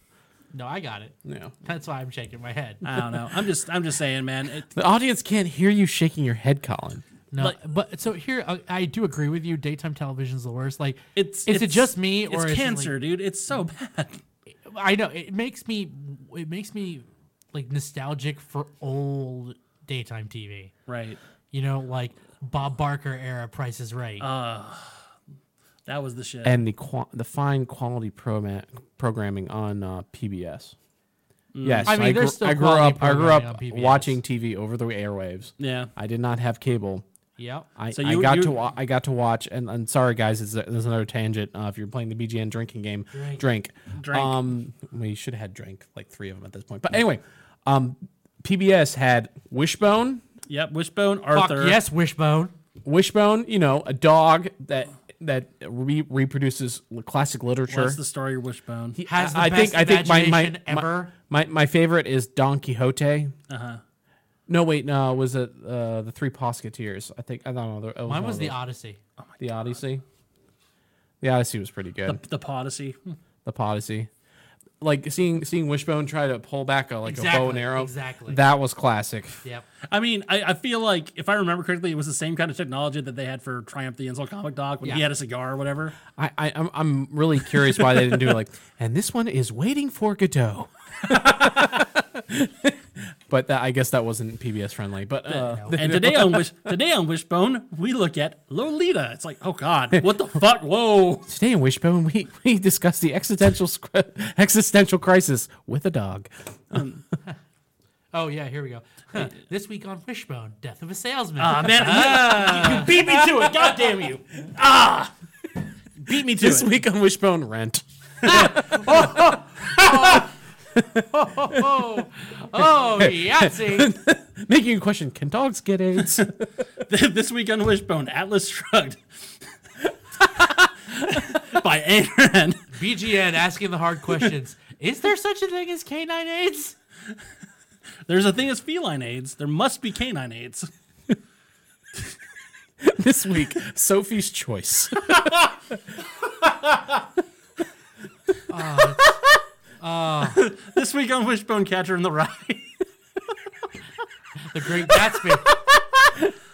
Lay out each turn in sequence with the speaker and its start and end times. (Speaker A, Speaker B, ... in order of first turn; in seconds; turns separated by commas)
Speaker A: 0.5-2.8, Speaker B: 1.2-1.5, Speaker C: 2.8-4.8, Speaker B: 4.8-7.1, Speaker A: 7.3-12.9, Speaker C: 11.2-14.2, Speaker A: 14.7-20.7, Speaker C: 20.9-21.2, Speaker A: 21.5-24.3, Speaker C: 24.2-25.1, Speaker C: 25.9-26.6, Speaker B: 26.4-30.8, Speaker C: 31.5-32.0, Speaker B: 31.6-37.0, Speaker A: 31.9-34.2, Speaker C: 35.6-35.9, Speaker A: 37.4-37.7, Speaker B: 37.8-50.2, Speaker C: 37.9-38.5, Speaker A: 43.1-43.4, Speaker C: 44.0-44.4, Speaker C: 50.5-51.8, Speaker A: 51.3-52.5, Speaker B: 52.9-58.0, Speaker C: 57.7-59.0, Speaker B: 59.0-63.3, Speaker A: 59.1-61.1, Speaker C: 63.5-63.8, Speaker B: 64.5-68.6, Speaker A: 68.1-69.0, Speaker C: 69.2-69.8, Speaker B: 69.4-70.0, Speaker B: 71.2-72.2, Speaker C: 72.0-73.2, Speaker B: 73.5-74.1, Speaker B: 74.8-79.4, Speaker A: 77.0-78.4, Speaker C: 79.9-86.0, Speaker B: 86.1-96.7, Speaker A: 95.3-96.1, Speaker C: 95.7-101.3, Speaker B: 101.3-106.8, Speaker C: 106.7-107.0, Speaker A: 108.1-112.9, Speaker C: 111.4-115.1, Speaker B: 112.9-113.8, Speaker C: 116.0-116.7, Speaker B: 116.1-126.4, Speaker C: 118.3-119.2, Speaker A: 119.7-120.3, Speaker A: 121.1-123.9, Speaker C: 126.0-126.3, Speaker C: 126.8-129.0, Speaker C: 130.3-132.7, Speaker A: 132.7-136.8, Speaker C: 138.1-140.7, Speaker B: 142.8-145.7, Speaker C: 146.5-146.8, Speaker A: 148.5-149.1, Speaker A: 149.8-150.4, Speaker C: 150.3-152.7, Speaker A: 154.4-155.5, Speaker C: 155.5-156.1